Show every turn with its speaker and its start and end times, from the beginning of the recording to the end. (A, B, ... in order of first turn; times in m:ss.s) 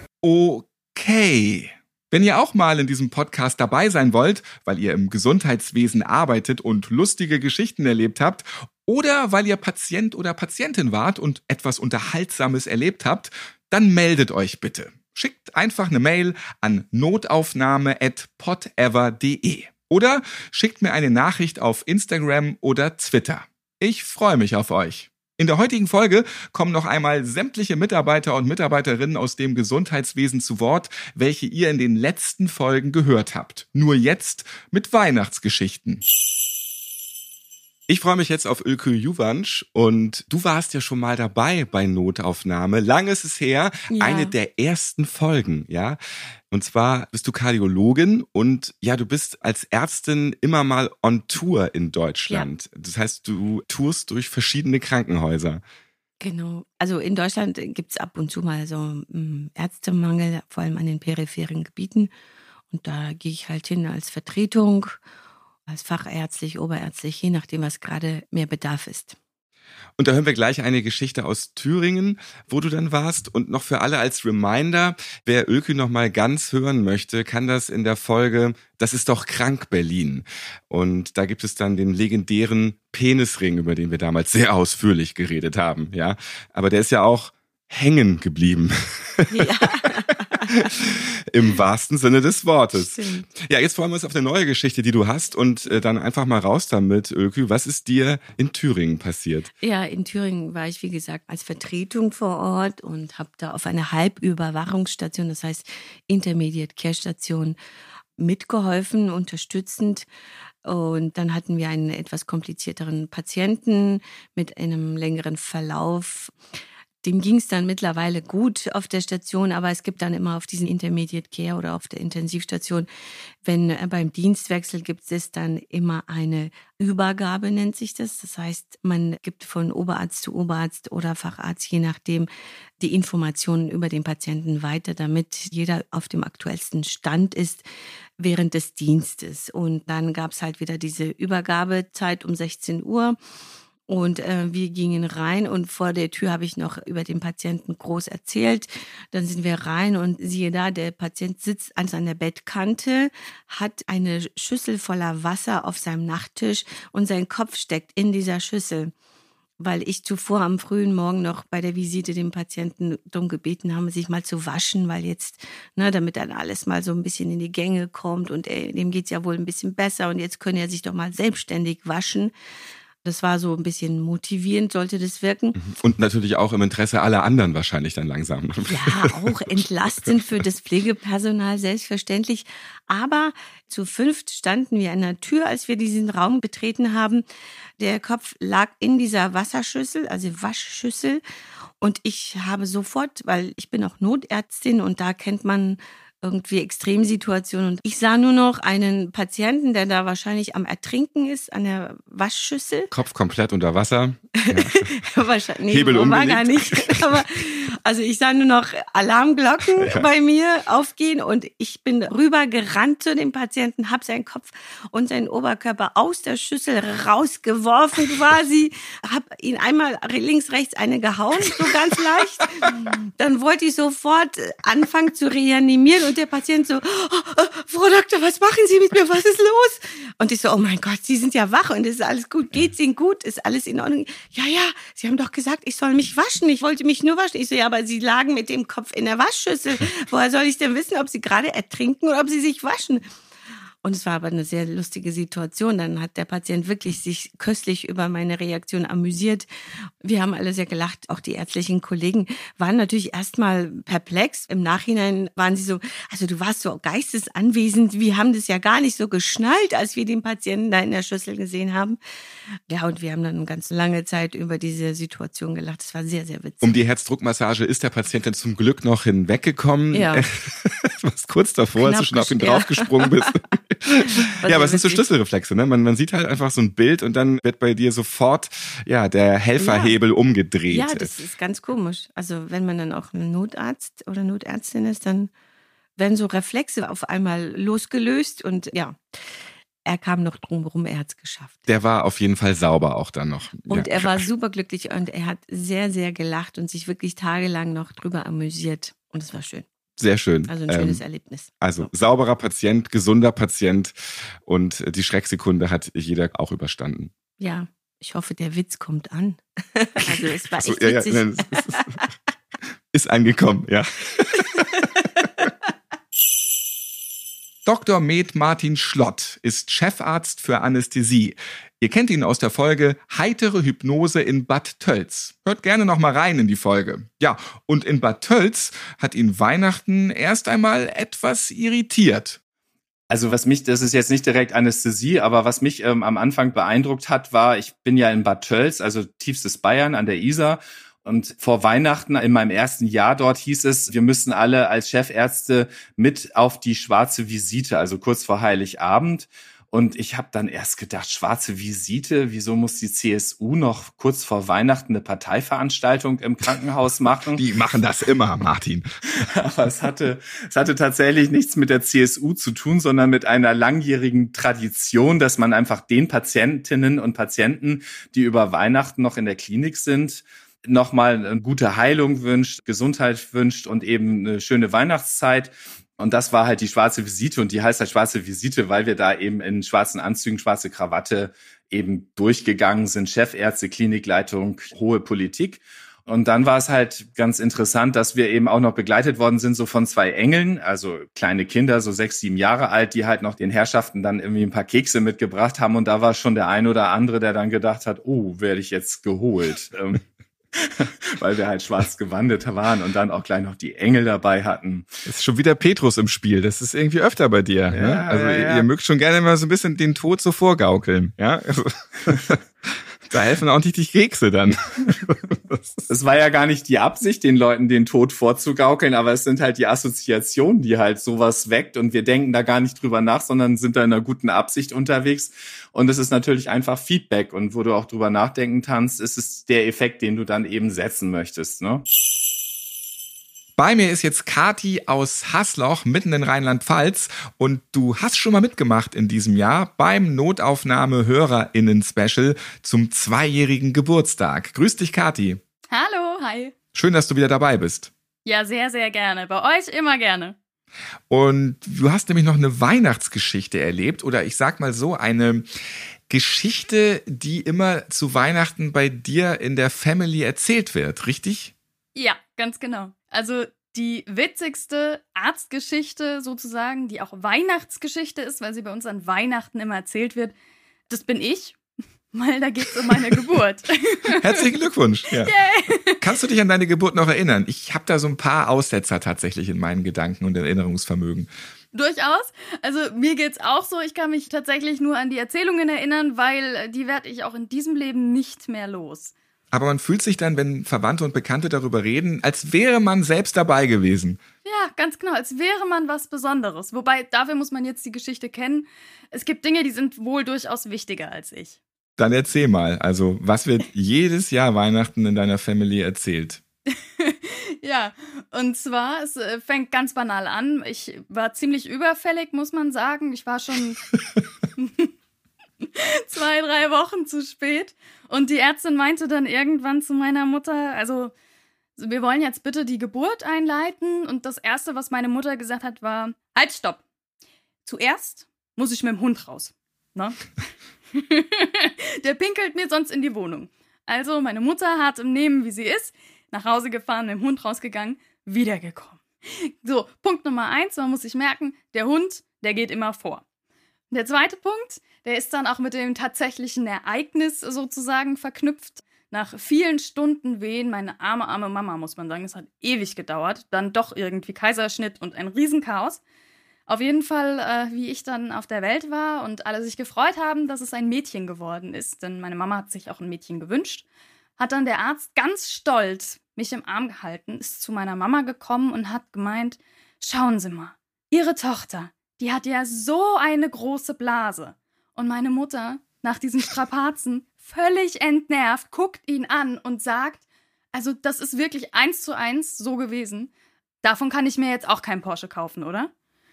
0:00.2-0:36.0 A
0:37.9-0:46.0 A
0:43.9-0:44.3 B
0:46.5-0:55.6 A
0:56.2-1:02.1 B
1:02.7-1:05.0 B
1:05.7-1:09.2 B
1:10.0-1:29.3 A
1:29.3-1:30.6 B
1:30.5-1:32.9 A
1:32.7-1:33.3 B
1:33.4-1:39.5 A
1:39.6-1:47.6 B
1:48.2-1:50.1 B
1:50.6-1:56.4 B
1:57.0-2:02.9 B
2:03.4-2:17.7 B
2:18.2-2:23.2 B
2:23.9-2:38.9 B
2:39.6-2:52.3 B
2:53.0-2:55.6 B
2:55.6-2:58.9 A
2:58.7-3:07.2 B
3:07.8-3:11.2 B
3:11.8-3:22.9 B
3:22.9-3:24.6 A
3:24.4-4:03.0 B
3:25.7-3:26.9 A
4:03.8-4:09.5 B
4:10.0-4:22.0 B
4:22.7-4:26.7 B
4:26.6-4:41.2 A
4:29.9-4:30.2 B
4:31.8-4:33.3 B
4:34.2-4:35.0 B
4:39.6-4:40.0 B
4:40.7-4:45.3 B
4:46.0-4:49.0 B
4:49.9-4:51.7 B
4:51.7-4:54.1 A
4:53.7-4:59.7 B
5:00.0-5:01.0 A
5:00.4-5:01.9 B
5:01.6-5:07.1 A
5:07.4-5:12.0 B
5:10.2-5:11.8 A
5:12.9-5:14.4 A
5:14.8-5:15.5 B
5:17.6-5:32.4 A
5:33.1-5:57.4 C
5:57.4-5:58.9 A
5:59.2-6:40.0 C
6:40.6-6:44.9 C
6:45.0-6:52.4 A
6:47.7-6:48.7 C
6:53.1-6:55.8 A
6:55.9-7:11.8 C
7:13.6-7:25.4 A
7:25.7-7:26.5 D
7:26.7-7:27.9 A
7:28.2-7:30.3 D
7:31.1-7:35.5 A
7:36.1-7:41.5 A
7:41.9-7:50.3 D
7:50.9-7:51.6 D
7:52.1-7:54.4 D
7:54.1-7:55.3 A
7:55.2-7:56.0 D
7:56.0-8:01.3 A
8:01.7-8:09.1 D
8:09.5-8:14.2 A
8:14.4-8:21.6 D
8:22.0-8:26.4 A
8:27.0-8:33.9 D
8:34.6-8:34.9 D
8:35.6-8:41.1 D
8:41.8-8:46.8 D
8:47.6-8:50.3 D
8:50.9-9:03.2 D
9:03.9-9:16.0 D
9:16.7-9:23.8 D
9:24.4-9:40.2 D
9:40.7-9:43.3 D
9:43.8-9:45.9 D